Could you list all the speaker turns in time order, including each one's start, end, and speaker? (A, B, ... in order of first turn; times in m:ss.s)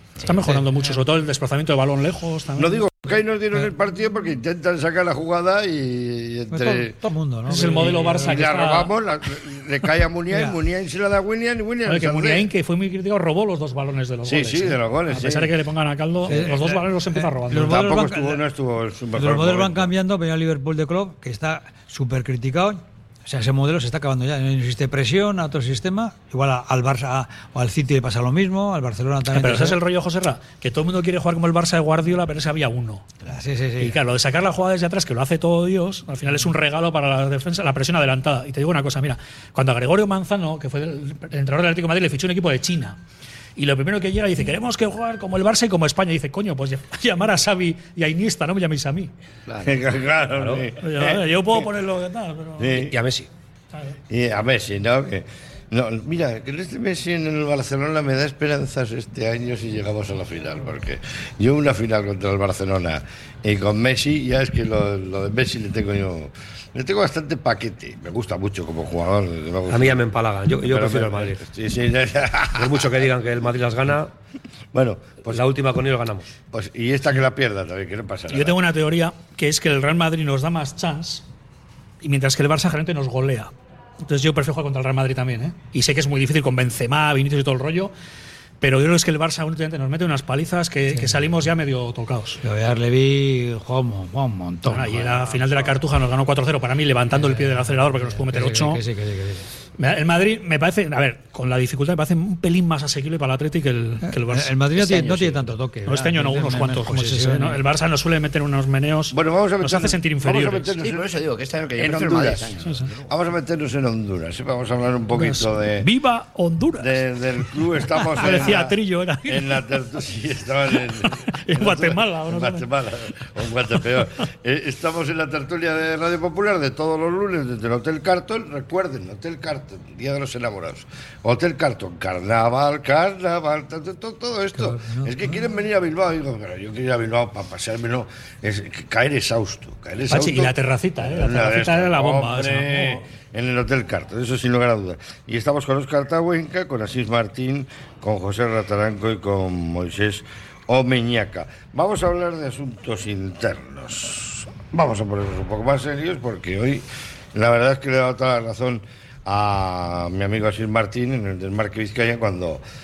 0:00.2-0:02.8 A
0:02.6-0:06.9 B
0:06.5-0:08.4 C
0:07.5-0:08.9 A
0:08.2-0:12.5 B
0:10.3-0:10.6 C
0:11.8-0:17.8 A
0:14.2-0:15.5 B
0:16.3-0:18.4 C
0:17.5-0:19.9 B
0:19.1-0:29.8 C
0:29.3-0:33.1 A
0:33.3-0:34.0 C
0:33.8-0:43.0 A
0:43.6-0:49.1 A
0:49.6-0:51.6 B
0:50.3-0:50.7 D
0:50.8-0:52.8 A
0:52.6-0:52.9 B
0:52.8-0:53.3 D
0:54.1-1:10.0 B
1:09.7-1:11.4 D
1:10.6-1:12.9 B
1:12.6-1:14.1 D
1:14.7-1:15.4 B
1:15.3-1:16.3 D
1:16.5-1:18.6 B
1:18.3-1:21.2 A
1:22.0-1:23.5 A
1:24.0-1:27.9 A
1:28.6-1:32.4 A
1:32.4-1:35.6 C
1:34.6-1:38.8 A
1:37.1-1:39.5 C
1:39.8-1:44.6 A
1:44.0-1:47.6 C
1:44.8-1:45.5 E
1:45.8-1:50.8 A
1:49.1-1:51.1 B
1:50.8-1:53.0 E
1:51.8-1:55.9 B
1:55.1-1:57.0 A
1:56.8-1:58.7 B
1:58.0-1:59.6 A
1:59.2-2:42.6 B
2:01.2-2:02.7 A
2:14.6-2:15.1 C
2:20.1-2:23.0 A